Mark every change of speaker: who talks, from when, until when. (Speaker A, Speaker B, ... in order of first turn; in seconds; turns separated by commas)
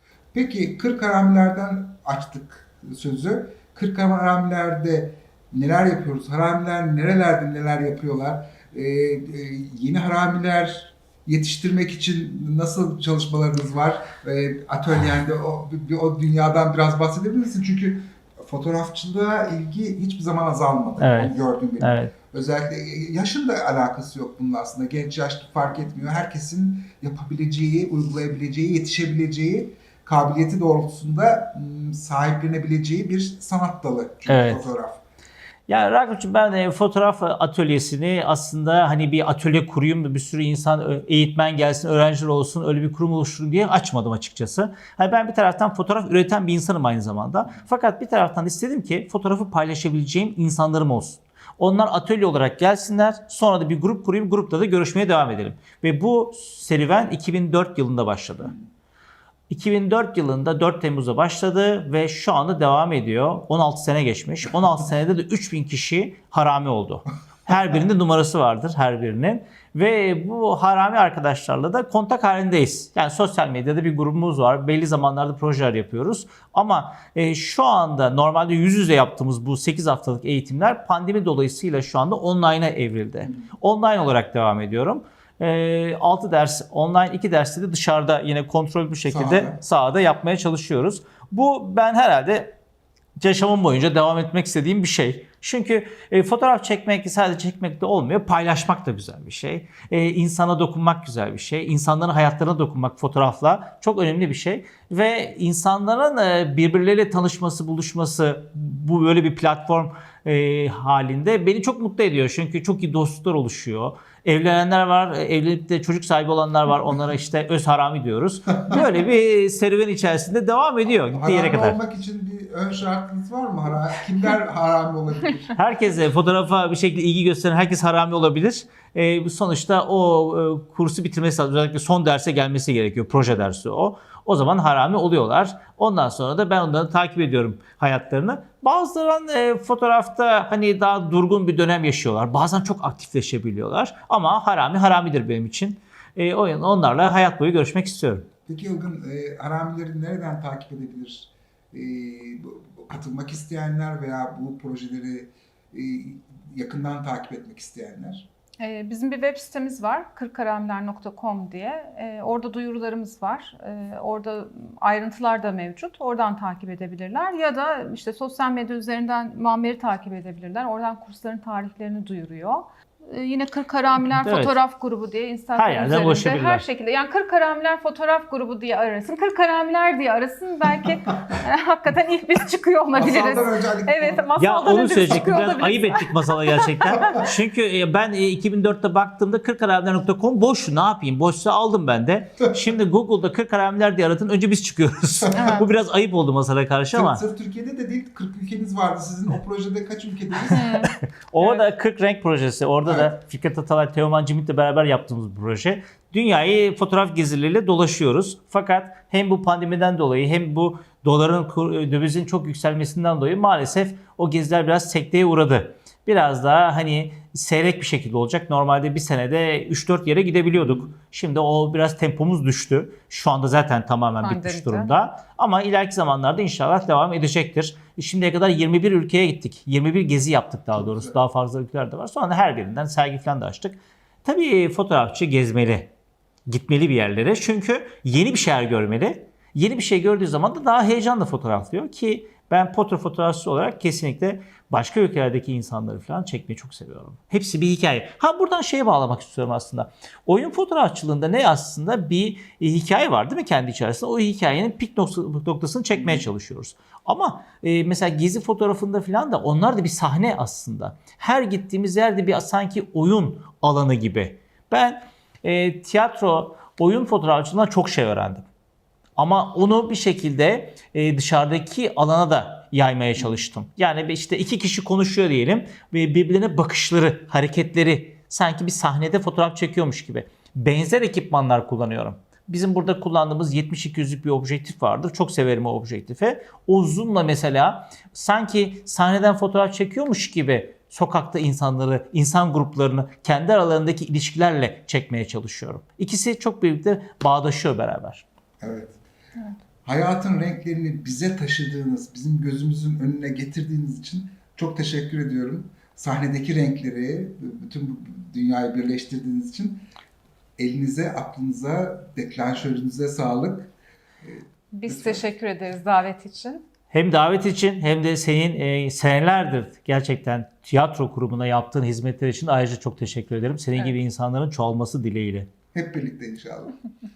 Speaker A: 0.3-35.0, Speaker B: 21.0-22.1, Speaker B: 34.3-34.7, Speaker B: 35.7-58.5, Speaker B: 59.5-92.5, Speaker A: 89.1-89.6, Speaker B: 93.2-121.8, Speaker A: 121.1-125.5, Speaker B: 125.5-148.3, Speaker A: 148.5-158.3, Speaker C: 158.6-187.3, Speaker B: 174.2-174.5, Speaker B: 175.6-176.6, Speaker A: 182.9-184.3, Speaker B: 184.3-197.2, Speaker C: 195.3-195.7, Speaker A: 196.9-200.6, Speaker C: 200.5-201.6, Speaker B: 200.5-235.9, Speaker A: 202.9-203.2, Speaker C: 224.2-224.9, Speaker A: 230.8-231.1, Speaker B: 236.4-268.5, Speaker A: 256.0-256.2, Speaker B: 269.2-298.2, Speaker A: 298.6-299.0, Speaker A: 299.8-309.9, Speaker A: 310.6-313.7, Speaker A: 314.2-315.2, Speaker C: 314.7-316.6, Speaker B: 316.9-325.5, Speaker A: 325.7-326.7